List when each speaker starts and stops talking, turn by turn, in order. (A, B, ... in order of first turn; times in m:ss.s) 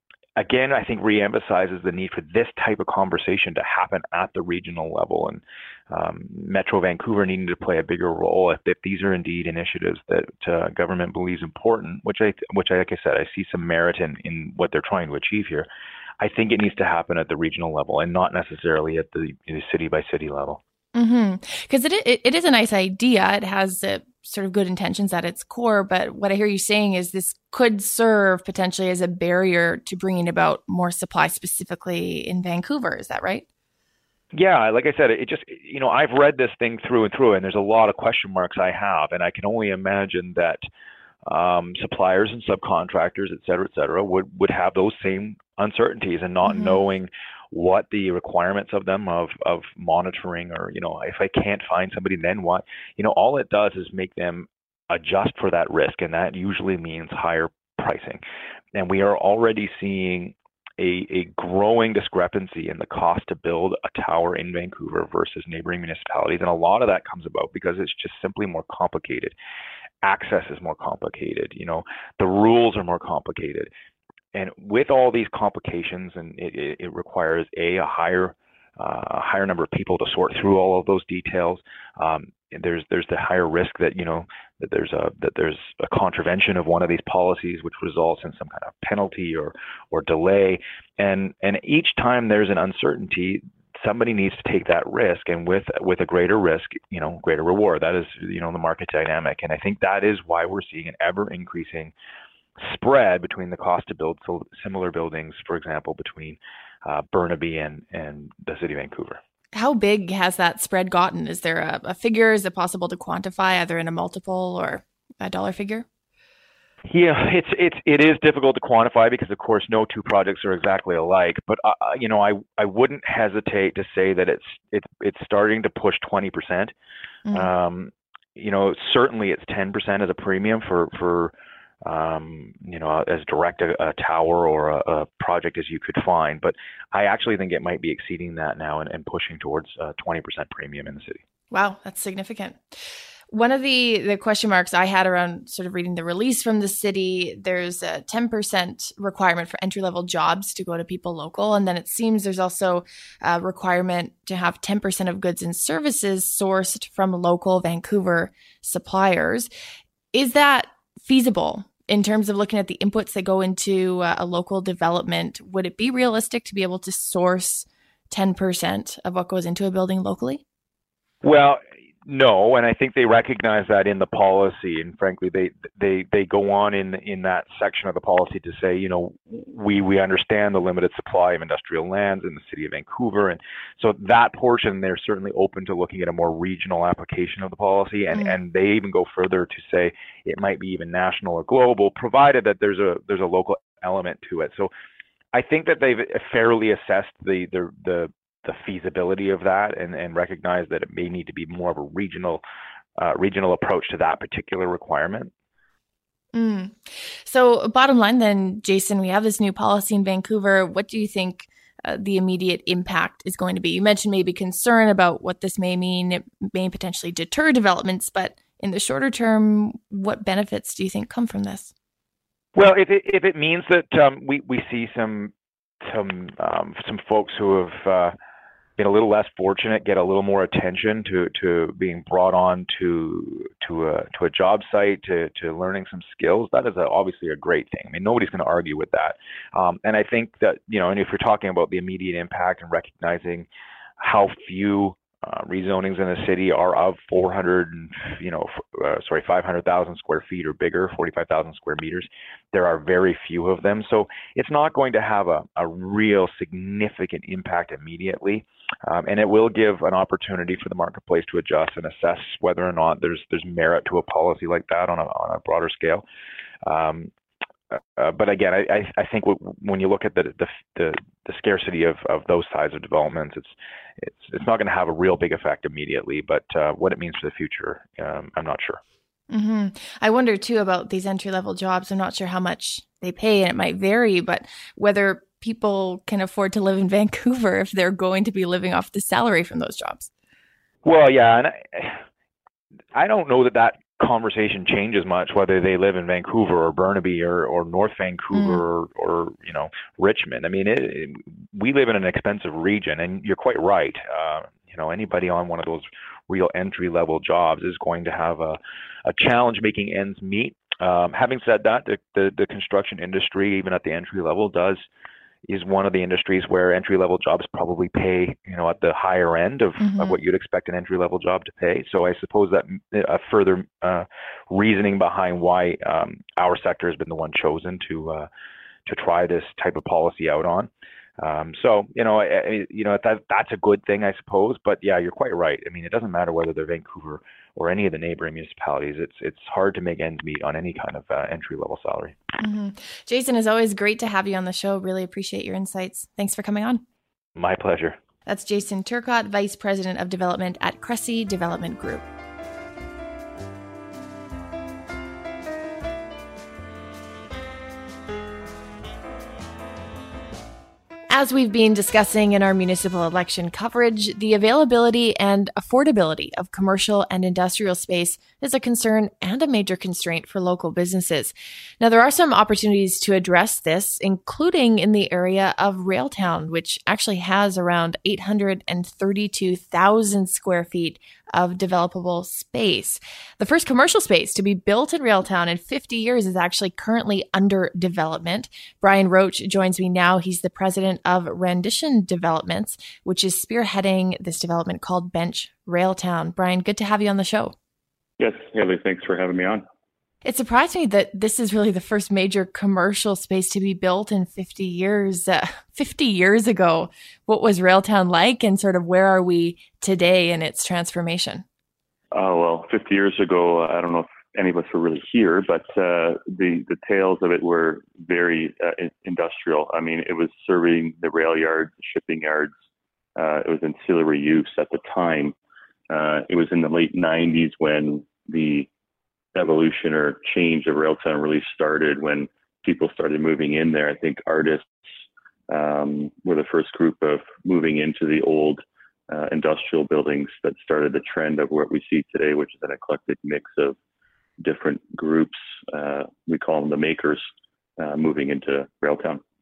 0:00.4-0:15.7 A
0:16.2-0:20.6 A
0:20.9-0:33.4 B
0:34.3-0:40.6 A
0:41.2-0:58.2 A
0:58.7-1:09.3 A
1:10.0-1:13.7 A
1:14.3-1:41.9 A
1:42.6-1:49.2 A
1:49.5-1:55.8 B
1:56.9-2:06.7 A
2:07.3-2:11.3 A
2:11.8-2:21.2 A
2:21.5-2:22.6 B
2:23.3-2:39.5 B
2:40.1-2:50.4 B
2:51.2-3:14.7 A
3:15.3-3:22.4 A
3:23.0-3:25.3 A
3:26.3-3:41.7 B
3:42.5-3:48.1 A
3:48.8-4:03.5 A
4:04.0-4:26.0 A
4:26.6-4:27.1 A
4:27.7-4:38.8 A
4:39.3-4:50.1 B
4:50.8-4:52.0 A
4:52.9-5:14.8 A
4:58.3-4:58.6 B
5:15.5-5:28.3 A
5:19.8-5:20.2 B
5:28.9-5:42.2 A
5:42.4-5:46.8 B
5:47.4-5:48.0 A
5:48.2-5:52.0 B
6:01.1-6:37.5 B
6:38.2-6:39.6 C
6:40.2-6:51.4 B
6:52.1-7:02.5 C
7:03.2-7:05.3 C
7:05.9-7:08.7 C
7:09.3-7:14.7 C
7:15.5-7:23.8 C
7:24.4-7:27.2 C
7:27.8-7:29.2 C